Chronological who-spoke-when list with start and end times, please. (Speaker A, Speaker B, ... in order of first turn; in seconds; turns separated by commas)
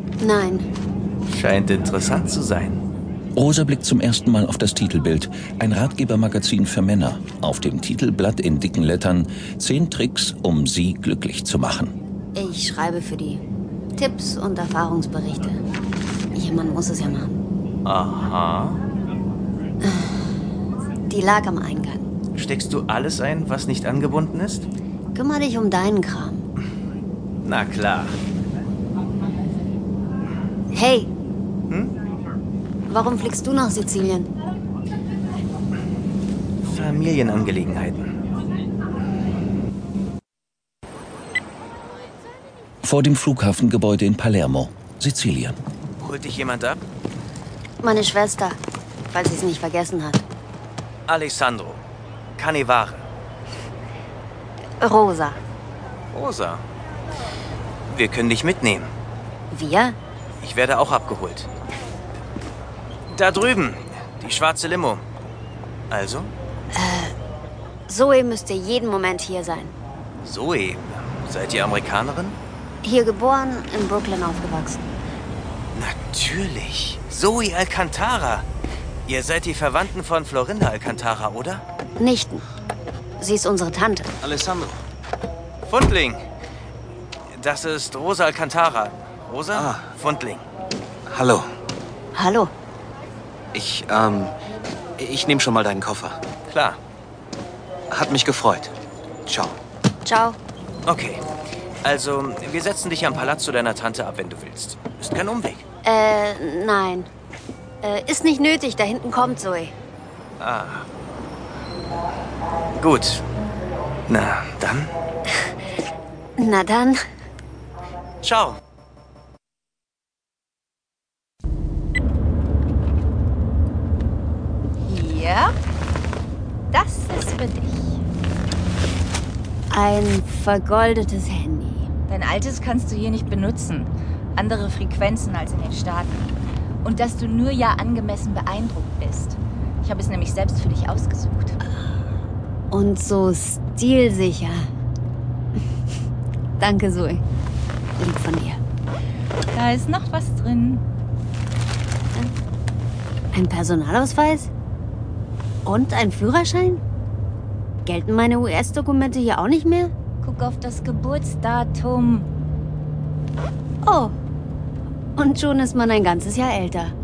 Speaker A: 0.2-0.7, Speaker B: 1.3-2.8, Speaker C: 3.4-11.9, Speaker A: 12.3-13.4, Speaker A: 14.0-15.6, Speaker A: 16.3-17.4, Speaker B: 17.9-18.8, Speaker A: 19.8-20.3, Speaker A: 21.1-22.1, Speaker B: 22.4-24.7, Speaker A: 25.1-26.5, Speaker B: 27.4-28.2, Speaker A: 30.7-31.1, Speaker A: 32.9-34.3, Speaker B: 36.6-38.1, Speaker C: 42.8-45.6, Speaker B: 46.0-46.8, Speaker A: 47.8-48.6, Speaker A: 49.1-50.2, Speaker B: 51.1-51.8, Speaker B: 52.4-53.1, Speaker A: 54.8-55.4, Speaker B: 56.1-56.6, Speaker B: 57.9-58.9, Speaker A: 59.5-60.0, Speaker B: 60.4-61.5, Speaker B: 63.1-65.0, Speaker B: 65.9-66.3, Speaker A: 66.7-67.2, Speaker A: 67.9-69.7, Speaker B: 70.2-72.4, Speaker A: 72.8-74.8, Speaker B: 75.7-78.5, Speaker B: 79.1-81.6, Speaker A: 82.0-82.4, Speaker A: 83.2-84.1, Speaker D: 84.2-84.8, Speaker B: 85.7-86.2, Speaker B: 87.4-90.4, Speaker D: 89.5-89.8, Speaker D: 91.1-91.5, Speaker A: 92.1-92.5, Speaker D: 93.5-94.3, Speaker D: 95.0-96.2, Speaker B: 96.5-96.8, Speaker D: 97.9-98.7, Speaker D: 99.3-99.6, Speaker A: 100.0-100.4, Speaker B: 100.9-101.2, Speaker B: 101.8-105.6, Speaker A: 105.8-107.1, Speaker A: 107.8-109.7, Speaker B: 110.4-110.9, Speaker B: 112.8-113.2, Speaker B: 114.1-114.9, Speaker A: 116.4-117.0, Speaker B: 118.2-118.6, Speaker E: 124.8-125.5, Speaker E: 126.7-128.0, Speaker A: 129.7-131.9, Speaker E: 132.2-136.3, Speaker E: 136.8-141.6, Speaker A: 142.7-144.7, Speaker A: 146.6-147.2, Speaker A: 148.0-148.6, Speaker E: 149.5-150.9, Speaker A: 153.3-154.5, Speaker A: 155.7-156.8, Speaker A: 157.8-159.9, Speaker E: 160.2-162.3, Speaker A: 163.8-164.2, Speaker A: 165.2-166.9